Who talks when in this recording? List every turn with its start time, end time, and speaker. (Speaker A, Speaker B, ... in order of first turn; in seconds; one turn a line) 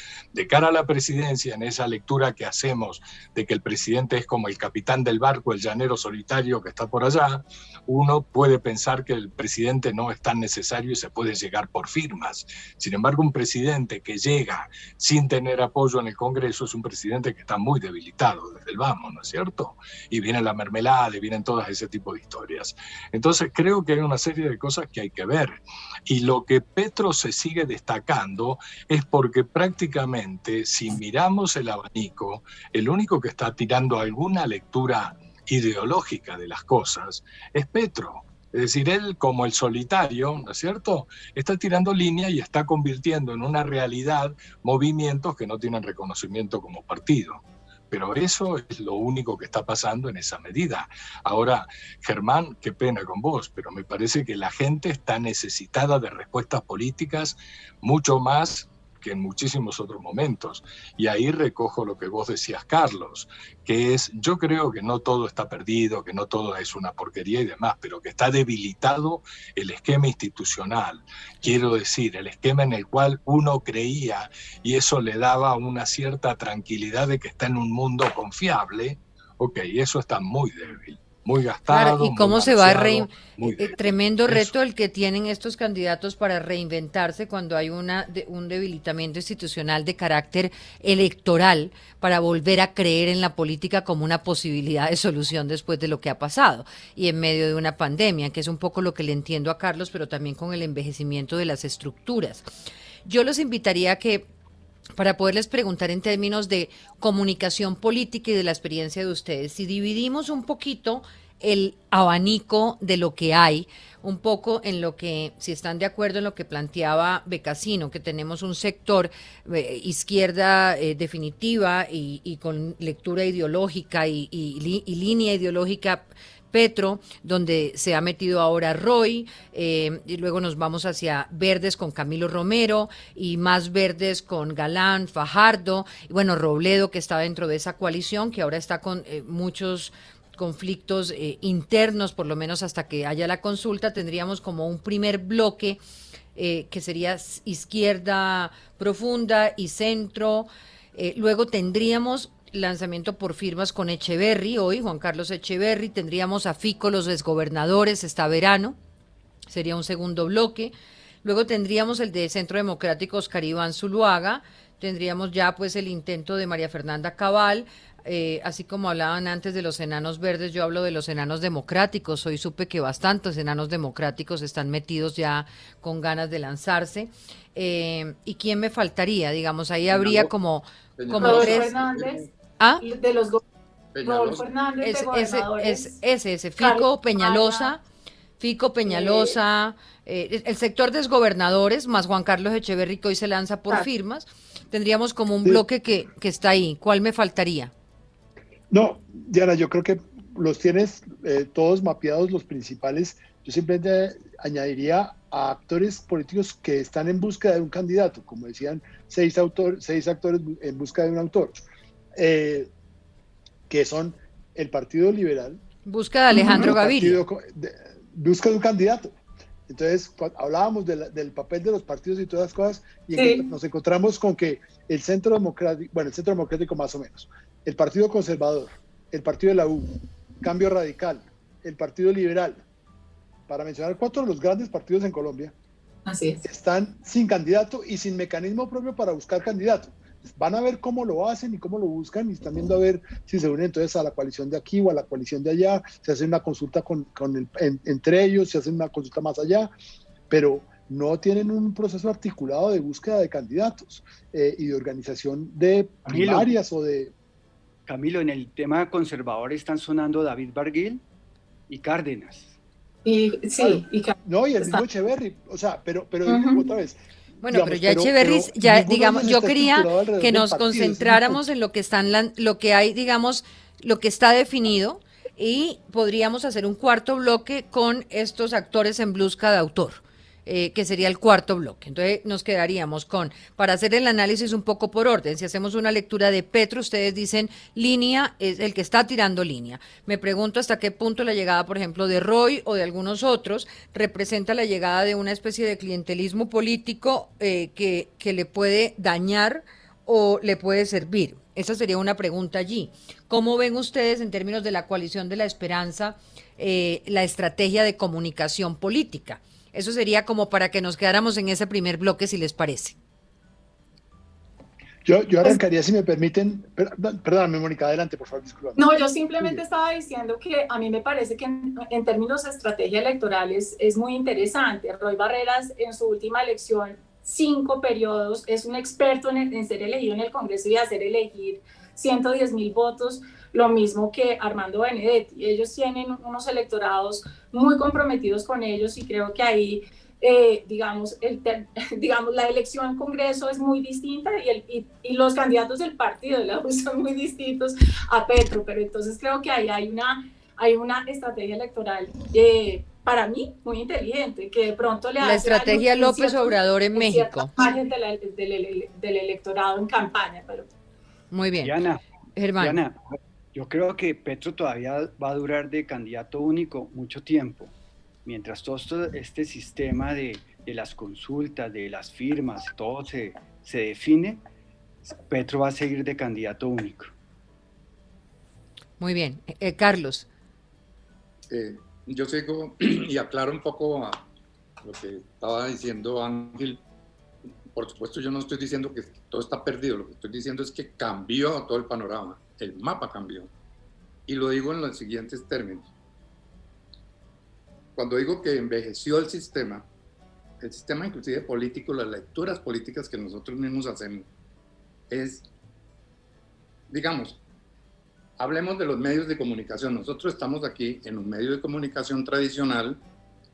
Speaker A: 0.3-84.5
Speaker B: 81.7-102.5
Speaker B: 103.0-104.3
Speaker B: 104.9-145.8
Speaker B: 146.3-158.8
Speaker B: 159.5-181.7
Speaker C: 179.9-180.3
Speaker C: 181.0-182.3
Speaker D: 181.2-182.3
Speaker B: 182.6-182.8
Speaker D: 182.8-183.4
Speaker C: 183.9-184.5
Speaker D: 184.0-185.9
Speaker B: 184.8-187.8
Speaker D: 186.6-187.7
Speaker B: 188.4-197.7
Speaker D: 188.9-189.3
Speaker E: 198.7-211.6
Speaker E: 212.1-212.7
Speaker E: 213.7-215.6
Speaker B: 215.8-217.2
Speaker E: 216.3-219.1
Speaker E: 219.7-232.6
Speaker D: 223.2-223.4
Speaker E: 233.5-235.5
Speaker D: 236.1-236.4
Speaker E: 236.4-249.7
Speaker E: 250.3-257.1
Speaker F: 256.1-256.5
Speaker F: 257.9-261.0
Speaker F: 261.7-262.5
Speaker D: 263.0-264.8
Speaker E: 263.6-271.4
Speaker D: 266.2-266.6
Speaker B: 267.4-313.0
Speaker E: 315.0-319.6
Speaker D: 318.8-360.7
Speaker B: 355.2-357.5
Speaker B: 361.3-361.7
Speaker F: 361.6-362.0
Speaker B: 362.4-362.8
Speaker F: 362.6-367.7
Speaker F: 368.2-374.4
Speaker F: 375.0-377.1
Speaker B: 379.0-380.2
Speaker C: 381.5-384.2
Speaker C: 384.8-386.8
Speaker C: 387.7-393.5
Speaker C: 394.3-395.9
Speaker C: 397.9-399.9
Speaker C: 400.6-404.3
Speaker C: 405.1-405.5
Speaker C: 406.9-407.4
Speaker C: 408.4-413.0